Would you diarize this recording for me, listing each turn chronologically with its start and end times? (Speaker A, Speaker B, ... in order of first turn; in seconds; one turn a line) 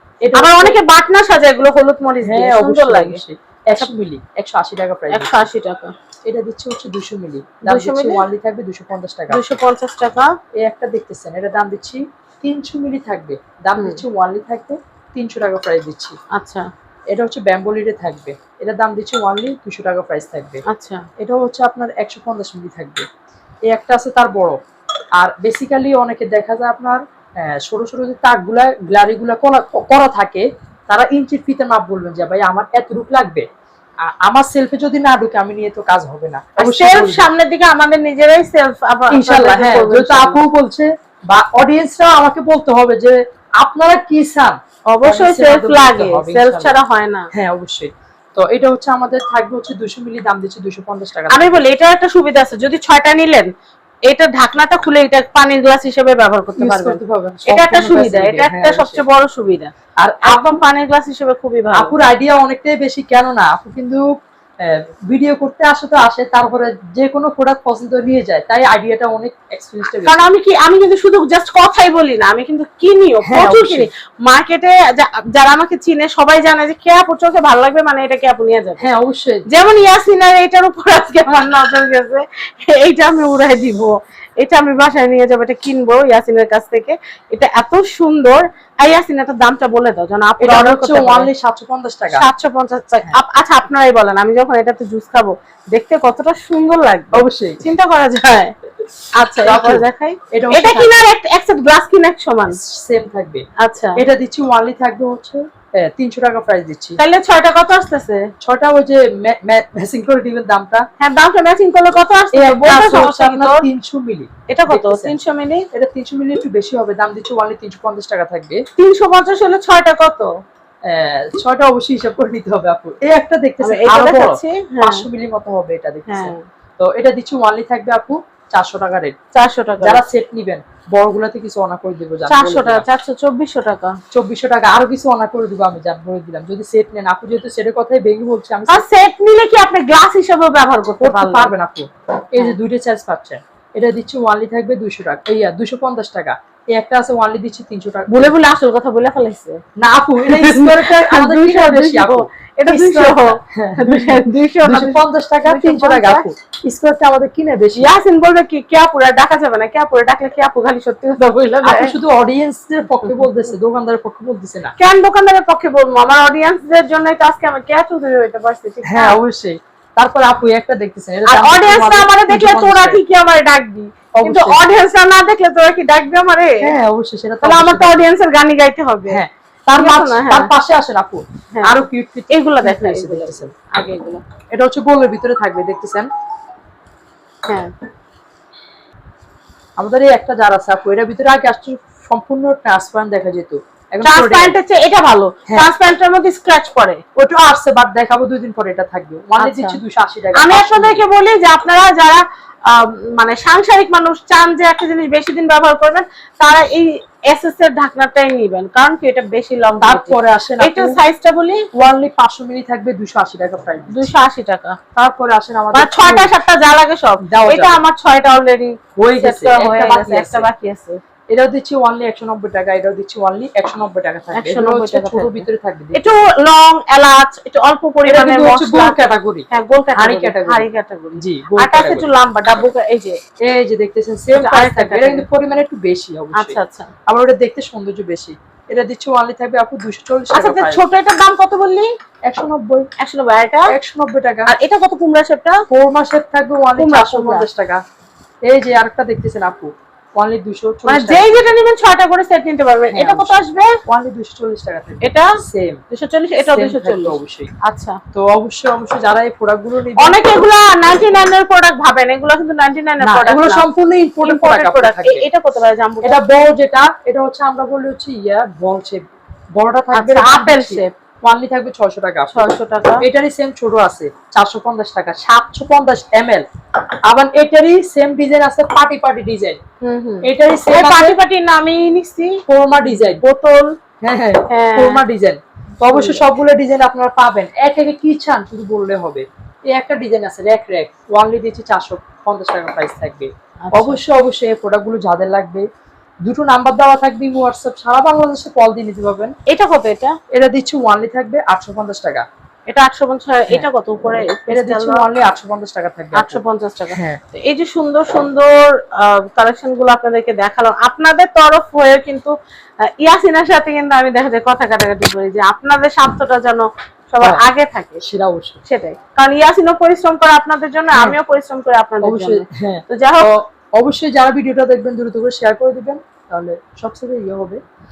Speaker A: 0.2-0.8
Speaker B: 0.3-3.2
Speaker A: 2.2-5.5
Speaker B: 5.1-5.9
Speaker A: 6.2-9.4
Speaker B: 7.6-8.2
Speaker B: 9.3-10.3
Speaker A: 10.6-16.2
Speaker B: 13.8-14.0
Speaker B: 16.3-16.7
Speaker A: 17.1-20.6
Speaker B: 20.6-21.1
Speaker A: 21.2-23.1
Speaker A: 23.7-24.6
Speaker A: 25.2-33.5
Speaker A: 34.0-37.3
Speaker B: 36.6-40.4
Speaker A: 39.1-46.8
Speaker B: 44.9-47.3
Speaker A: 47.3-51.6
Speaker B: 51.3-53.5
Speaker B: 54.1-59.7
Speaker A: 56.6-59.0
Speaker A: 60.0-60.6
Speaker B: 60.2-62.0
Speaker A: 61.7-64.0
Speaker A: 64.6-70.2
Speaker B: 70.0-78.8
Speaker A: 73.2-73.9
Speaker A: 78.8-79.4
Speaker B: 79.5-91.3
Speaker A: 90.4-92.2
Speaker B: 92.1-98.5
Speaker A: 97.1-97.6
Speaker B: 99.1-102.6
Speaker A: 99.4-100.9
Speaker A: 102.5-103.4
Speaker B: 103.6-104.0
Speaker A: 104.0-107.0
Speaker B: 107.0-108.3
Speaker A: 108.4-110.8
Speaker B: 111.0-113.6
Speaker A: 112.3-115.2
Speaker B: 114.5-115.7
Speaker A: 115.7-118.6
Speaker B: 118.8-120.3
Speaker A: 120.8-129.1
Speaker B: 123.6-125.0
Speaker B: 126.1-126.4
Speaker B: 129.3-130.0
Speaker A: 129.8-132.8
Speaker B: 132.3-134.0
Speaker A: 134.1-138.8
Speaker B: 138.7-141.5
Speaker A: 141.0-148.3
Speaker B: 148.1-149.6
Speaker A: 149.8-157.9
Speaker B: 150.2-156.2
Speaker B: 157.8-161.9
Speaker A: 161.6-164.8
Speaker B: 163.0-163.4
Speaker B: 164.8-169.2
Speaker A: 168.8-173.0
Speaker B: 171.2-176.7
Speaker A: 174.1-174.6
Speaker A: 176.6-178.1
Speaker B: 177.4-179.2
Speaker A: 179.1-183.5
Speaker B: 179.8-180.5
Speaker B: 181.5-184.2
Speaker A: 184.5-186.1
Speaker B: 187.4-187.7
Speaker A: 189.8-194.5
Speaker B: 194.0-197.0
Speaker A: 197.2-201.0
Speaker B: 199.4-199.8
Speaker B: 200.3-211.7
Speaker A: 209.8-211.0
Speaker A: 211.7-214.1
Speaker B: 213.9-214.8
Speaker A: 214.9-216.3
Speaker B: 215.7-221.0
Speaker A: 217.2-217.8
Speaker A: 218.9-220.5
Speaker A: 221.3-226.1
Speaker B: 224.3-229.0
Speaker A: 228.1-232.1
Speaker B: 229.5-233.2
Speaker A: 233.4-240.8
Speaker B: 234.3-235.2
Speaker B: 236.3-236.9
Speaker B: 240.3-241.9
Speaker A: 242.2-242.9
Speaker B: 243.0-243.7
Speaker A: 243.7-244.5
Speaker B: 244.5-245.6
Speaker A: 245.7-247.8
Speaker B: 246.8-247.5
Speaker A: 248.4-251.3
Speaker B: 250.8-253.8
Speaker A: 252.9-255.8
Speaker B: 255.0-255.4
Speaker B: 255.9-258.0
Speaker A: 256.4-257.5
Speaker A: 258.1-260.2
Speaker B: 260.0-263.6
Speaker A: 263.0-265.2
Speaker B: 264.2-266.2
Speaker A: 266.0-276.4
Speaker B: 269.9-270.9
Speaker B: 272.3-273.0
Speaker A: 277.1-279.6
Speaker B: 279.8-283.7
Speaker A: 280.2-281.1
Speaker A: 282.5-283.2
Speaker A: 284.0-295.6
Speaker B: 284.5-285.0
Speaker B: 285.8-286.2
Speaker B: 293.6-294.0
Speaker A: 296.2-299.3
Speaker B: 299.5-300.1
Speaker A: 300.3-302.2
Speaker B: 302.7-305.0
Speaker A: 304.5-307.2
Speaker B: 306.1-318.0
Speaker A: 318.0-318.6
Speaker B: 318.6-323.3
Speaker A: 322.0-327.6